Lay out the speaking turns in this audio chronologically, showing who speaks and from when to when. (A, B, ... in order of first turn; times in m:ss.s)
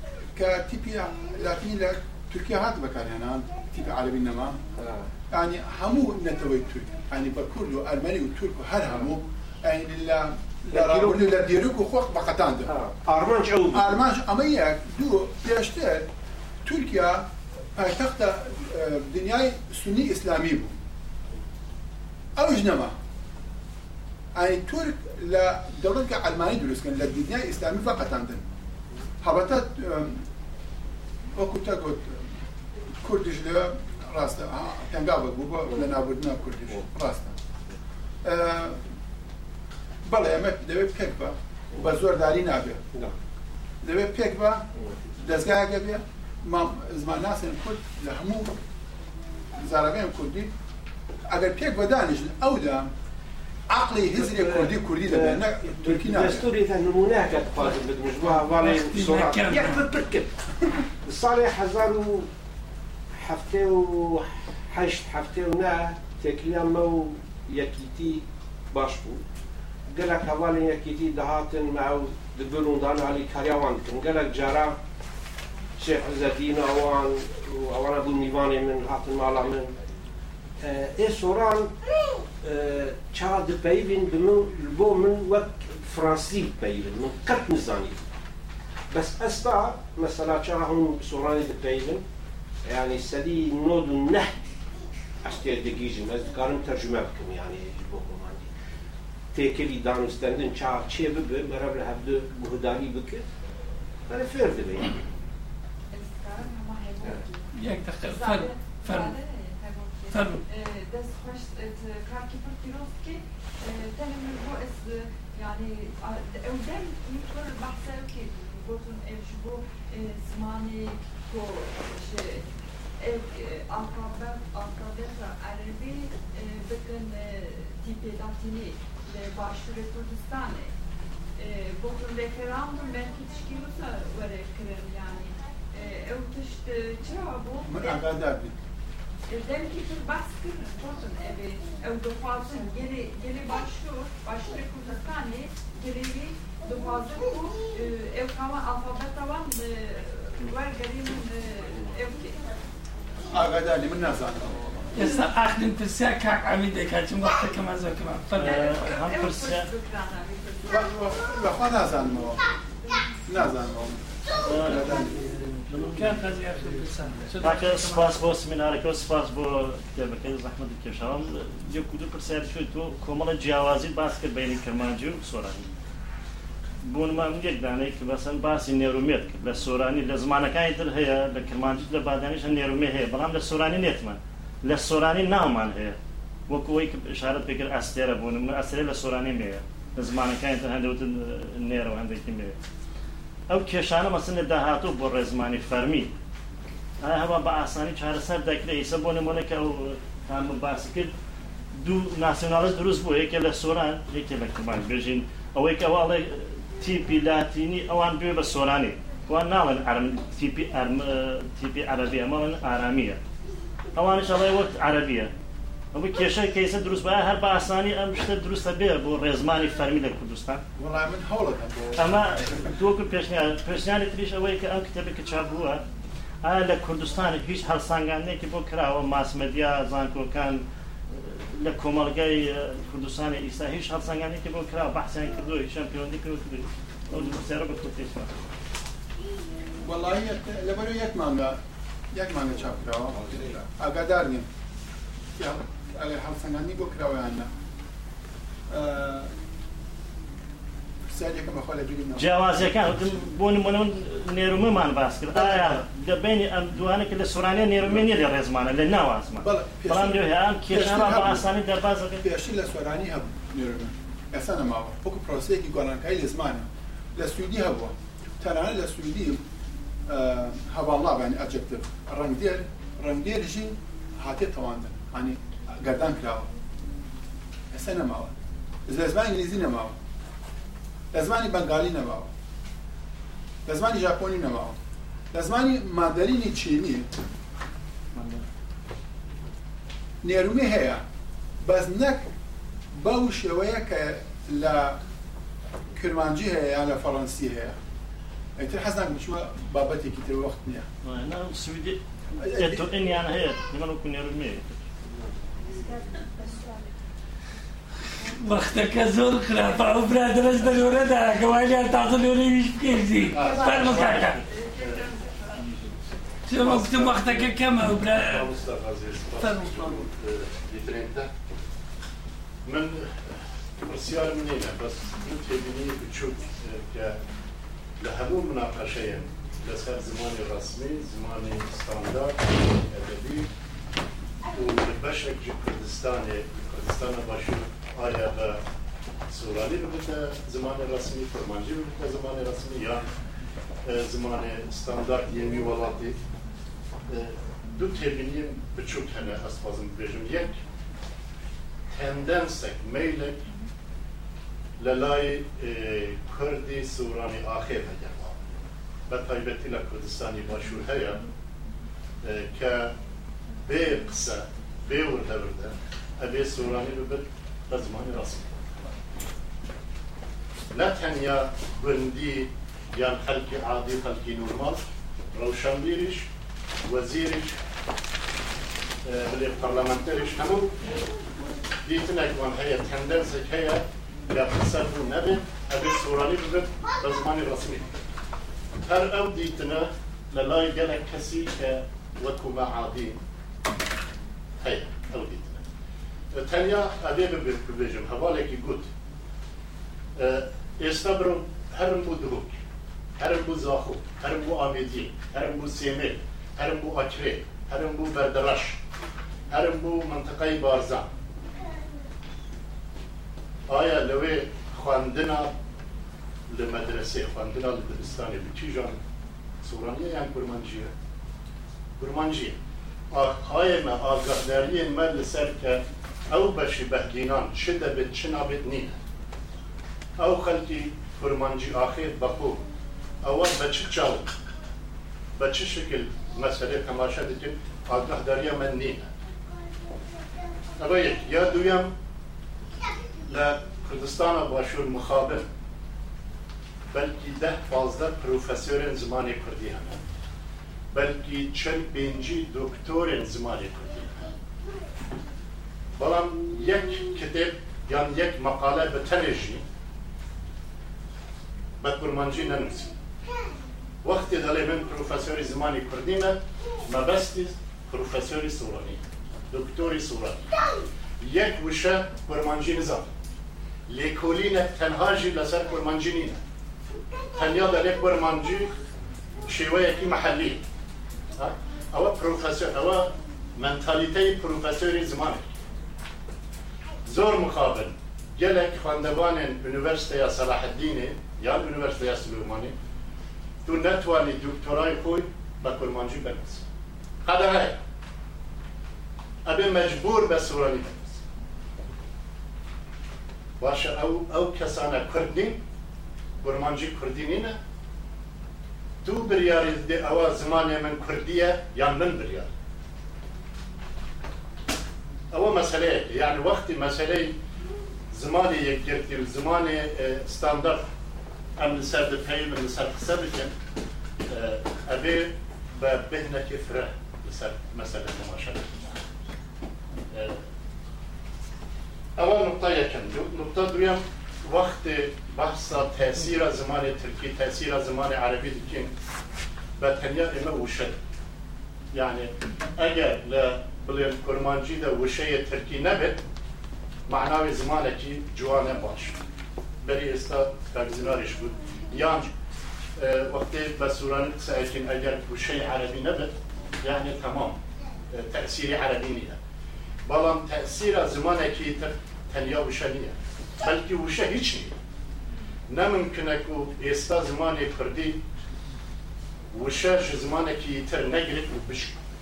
0:00.4-0:04.6 A
0:04.8-0:05.1 B
0:05.3-0:12.8 A
0:10.7-0:11.4 B
0:12.7-0:13.9 B
0:13.7-0:16.1 A
0:16.6-0:20.8 A
0:22.4-0:22.9 A
0:24.3-0:28.4 A
0:29.2-0:30.2 A
0:31.4-0:32.3 A
0:33.0-0:37.4 A
0:38.2-0:38.8 A
0:40.0-0:42.8 A
0:43.8-0:48.6 A
0:49.6-0:50.5 A
0:51.3-0:52.9 A
0:53.7-0:56.5 A
0:54.1-1:00.3 B
0:58.5-0:59.4 A
0:58.6-0:59.9 C
1:01.0-1:02.3 B
1:03.2-1:09.2 B
1:09.9-1:14.8 B
1:15.8-1:19.8 B
1:20.6-1:21.7 B
1:22.4-1:28.0 B
1:28.9-1:32.0 B
1:32.6-1:34.4 B
1:35.2-1:38.5 B
1:39.3-1:43.2 B
1:44.1-1:45.0 B
1:45.9-2:02.5 D
1:47.5-1:49.2 C
1:50.1-1:50.4 C
2:03.0-2:10.7 D
2:11.4-2:18.0 D
2:17.6-2:18.5 A
2:19.3-2:32.6 D
2:33.3-2:34.9 A
2:34.9-2:39.1 C
2:38.4-2:39.7 E
2:38.4-2:41.1 D
2:40.7-2:42.4 A
2:43.3-2:44.0 A
2:44.4-2:45.0 E
2:44.6-2:48.2 C
2:44.6-2:45.2 A
2:45.5-2:46.3 E
2:47.4-2:55.7 E
2:56.8-3:12.6 E
3:13.5-3:16.1 E
3:17.0-3:21.1 E
3:21.8-3:33.2 E
3:34.0-3:35.3 E
3:35.9-3:40.6 E
3:40.8-3:42.6 A
3:42.0-3:45.8 E
3:46.4-3:58.4 E
3:59.8-4:01.6 A
4:02.1-4:04.5 A
4:05.4-4:07.5 A
4:08.7-4:09.3 A
4:11.1-4:12.8 A
4:12.2-4:22.2 E
4:15.3-4:15.8 A
4:19.4-4:21.5 A
4:22.2-4:29.4 A
4:30.1-4:36.5 A
4:37.7-4:38.3 A
4:38.9-4:40.0 A
4:41.1-4:42.3 A
4:43.7-4:44.8 A
4:45.3-4:47.1 A
4:48.1-4:48.4 E
4:50.2-4:51.0 A
4:51.6-4:52.3 A
4:52.9-4:55.0 A
4:56.0-4:57.8 A
4:58.6-5:00.9 A
5:01.0-5:04.8 E
5:02.4-5:02.9 A
5:05.8-5:06.8 D
5:08.4-5:14.4 C
5:13.3-5:16.0 F
5:13.4-5:15.6 D
5:16.5-5:18.5 C
5:16.5-5:21.3 F
5:19.4-5:20.0 C
5:22.7-5:23.1 F
5:23.8-5:27.2 F
5:28.0-5:33.5 F
5:34.5-5:38.6 F
5:39.3-5:43.1 F
5:43.8-5:46.2 F
5:47.1-5:50.6 F
5:51.9-5:53.4 F
5:54.8-5:58.5 F
5:59.1-6:01.2 F
6:02.2-6:02.9 F
6:03.7-6:08.5 F
6:10.7-6:14.8 F
6:15.3-6:16.3 F
6:16.8-6:17.6 F
6:19.1-6:20.8 F
6:21.8-6:27.9 F
6:28.8-6:33.2 F
6:34.6-6:35.6 F
6:36.3-6:38.9 F
6:40.2-6:42.6 F
6:43.2-6:48.8 F
6:49.5-6:51.1 F
6:53.7-6:55.5 F
6:56.5-6:59.0 F
6:59.6-7:00.9 F
7:02.0-7:02.6 F
7:03.1-7:09.0 F
7:10.2-7:12.6 F
7:13.2-7:14.3 F
7:15.4-7:19.1 F
7:20.8-7:21.9 F
7:23.3-7:25.4 F
7:26.9-7:30.0 F
7:30.9-7:34.3 F
7:36.0-7:39.6 F
7:41.8-7:42.9 F
7:44.0-7:50.4 F
7:51.2-7:53.1 F
7:53.9-7:56.4 F
7:57.4-7:58.7 F
7:59.4-8:00.6 F
8:01.4-8:05.5 F
8:07.0-8:12.7 F
8:13.6-8:16.6 F
8:17.2-8:17.8 F
8:19.5-8:21.2 F
8:23.6-8:25.6 F
8:26.4-8:27.6 F
8:29.0-8:32.5 F
8:35.3-8:37.4 F
8:38.1-8:40.9 F
8:41.6-8:43.5 F
8:44.3-8:48.9 F
8:52.2-8:58.9 F
8:59.8-9:01.0 F
9:01.9-9:06.2 F
9:07.1-9:09.2 F
9:09.8-9:12.3 F
9:13.0-9:17.6 F
9:18.1-9:19.4 F
9:20.1-9:24.7 F
9:25.7-9:28.2 F
9:29.5-9:32.0 F